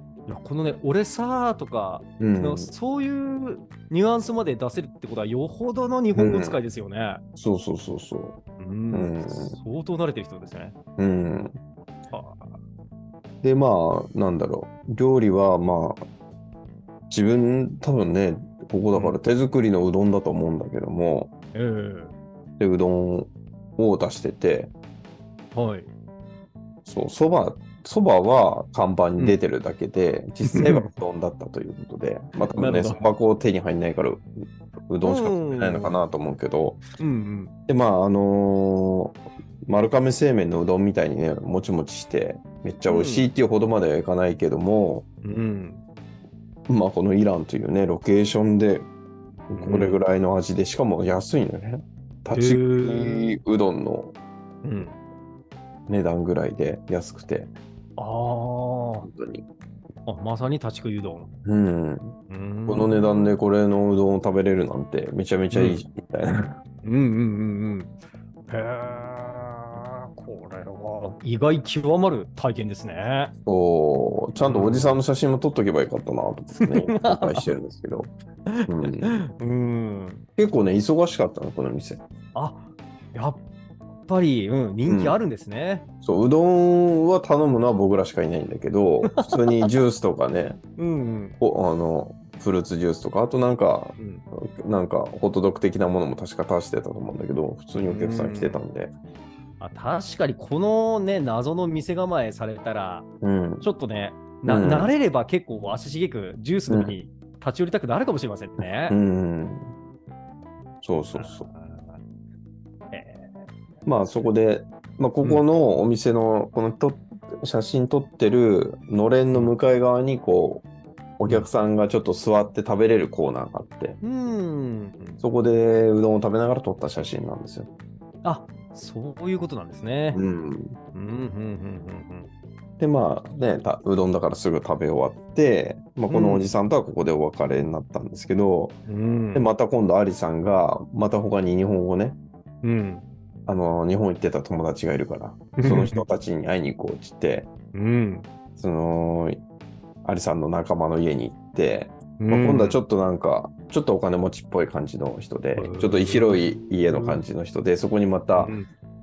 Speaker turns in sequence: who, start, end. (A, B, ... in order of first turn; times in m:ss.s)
0:00.3-0:07.2 A
0:02.2-0:02.7 B
0:06.2-0:06.6 B
0:07.4-0:08.4 B
0:08.6-0:10.8 A
0:08.9-0:09.6 B
0:11.0-0:11.6 B
0:12.1-0:12.6 A
0:13.4-0:16.0 B
0:17.1-0:21.3 B
0:18.9-0:19.2 A
0:21.5-0:22.2 A
0:22.6-0:24.7 B
0:25.5-0:25.9 A
0:26.8-0:36.8 B
0:30.4-0:30.9 A
0:32.4-0:33.0 A
0:35.0-0:36.0 A
0:37.0-0:37.5 A
0:37.7-0:45.0 B
0:42.9-0:43.3 A
0:45.2-0:45.8 A
0:46.7-0:48.9 B
0:49.5-0:54.1 B
0:49.5-0:50.0 A
0:52.3-0:53.4 A
0:54.6-0:55.0 A
0:55.9-0:57.5 B
0:58.0-0:59.1 A
0:59.0-0:59.5 B
1:00.1-1:01.3 A
1:01.4-1:02.2 B
1:02.3-1:03.4 A
1:02.7-1:06.6 B
1:05.5-1:05.8 A
1:06.8-1:07.9 A
1:08.5-1:13.3 A
1:13.5-1:18.1 B
1:14.4-1:15.0 A
1:16.6-1:17.5 A
1:18.5-1:20.2 A
1:18.7-1:19.2 B
1:20.4-1:22.0 B
1:22.3-1:23.4 A
1:24.0-1:25.8 A
1:24.9-1:25.2 B
1:26.0-1:30.6 B
1:29.0-1:29.7 A
1:30.8-1:31.4 A
1:31.4-1:38.9 B
1:34.0-1:34.2 A
1:37.8-1:38.6 A
1:39.6-1:43.1 A
1:43.2-1:43.7 B
1:43.6-1:49.0 A
1:44.5-1:44.9 B
1:46.7-1:47.0 B
1:48.9-1:49.7 B
1:50.8-1:51.5 B
1:51.1-1:52.0 A
1:52.9-1:53.4 A
1:53.8-2:00.6 B
2:01.2-2:04.0 B
2:04.0-2:05.2 A
2:05.2-2:07.7 B
2:08.2-2:10.2 A
2:10.1-2:10.8 B
2:10.9-2:12.3 A
2:12.8-2:18.8 B
2:16.1-2:16.5 A
2:18.9-2:19.5 A
2:19.3-2:22.2 B
2:22.6-2:23.0 A
2:23.5-2:27.5 B
2:25.6-2:26.1 A
2:27.7-2:28.3 A
2:28.6-2:29.4 B
2:30.0-2:38.5 B
2:32.2-2:32.8 A
2:35.6-2:37.2 A
2:38.4-2:38.7 A